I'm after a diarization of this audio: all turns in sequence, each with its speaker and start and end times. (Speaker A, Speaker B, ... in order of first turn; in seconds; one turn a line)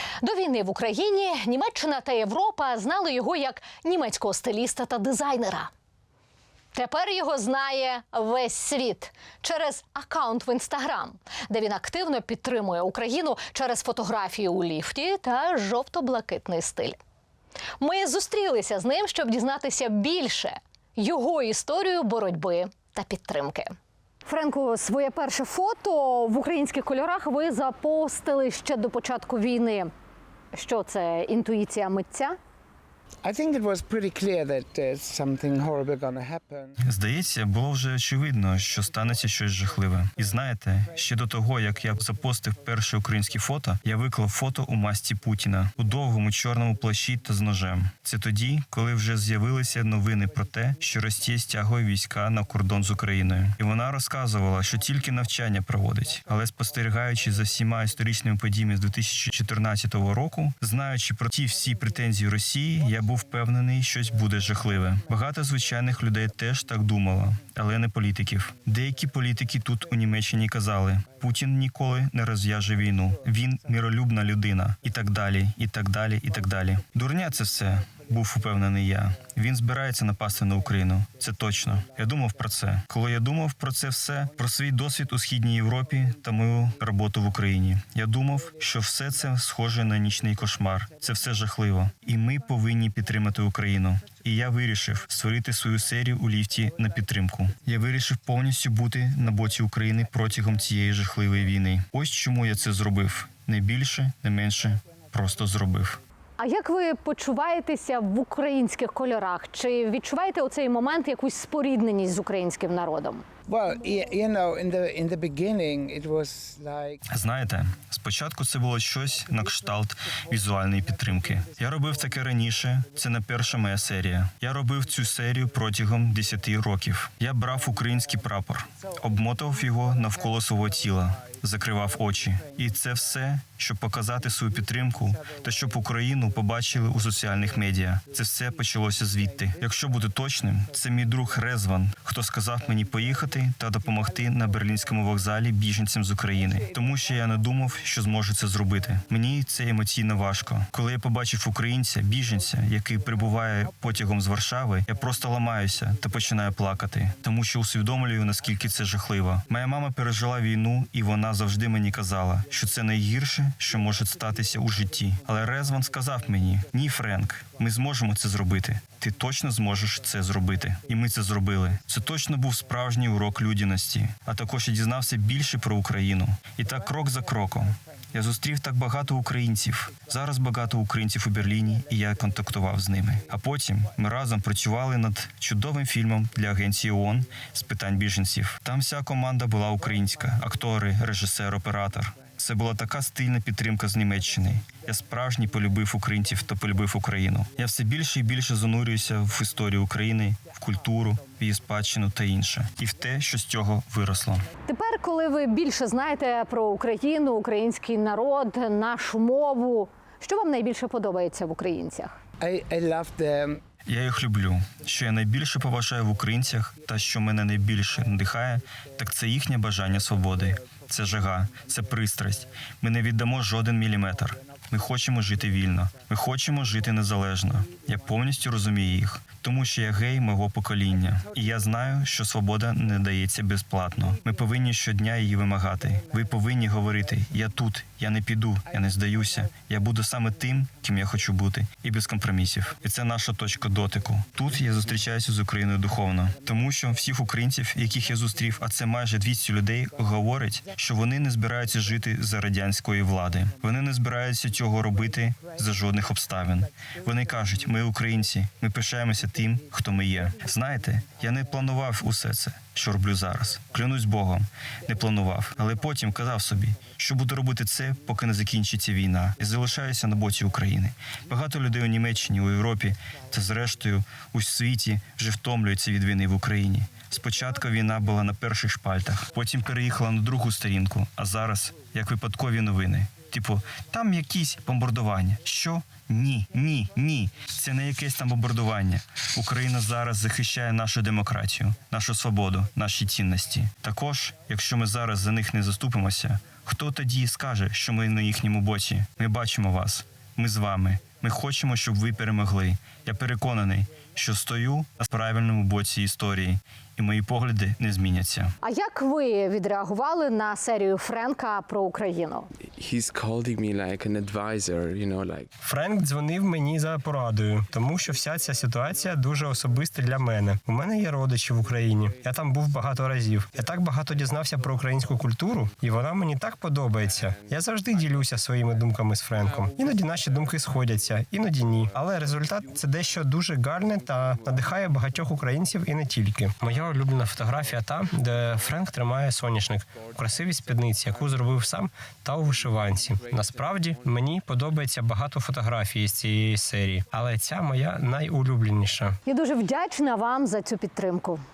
Speaker A: 0.2-5.7
Speaker A: 6.7-17.0
Speaker A: 17.8-23.7
Speaker A: 24.3-29.9
Speaker A: 30.5-32.4
Speaker B: 33.2-36.8
Speaker C: 36.8-106.0
Speaker A: 106.4-113.2
Speaker B: 113.5-117.0
Speaker C: 117.1-204.5
Speaker A: 204.7-212.2
Speaker B: 212.4-213.6
Speaker C: 213.9-308.5
Speaker A: 308.6-312.5
Speaker D: 312.7-315.5
Speaker E: 315.6-349.2
Speaker A: 349.3-351.4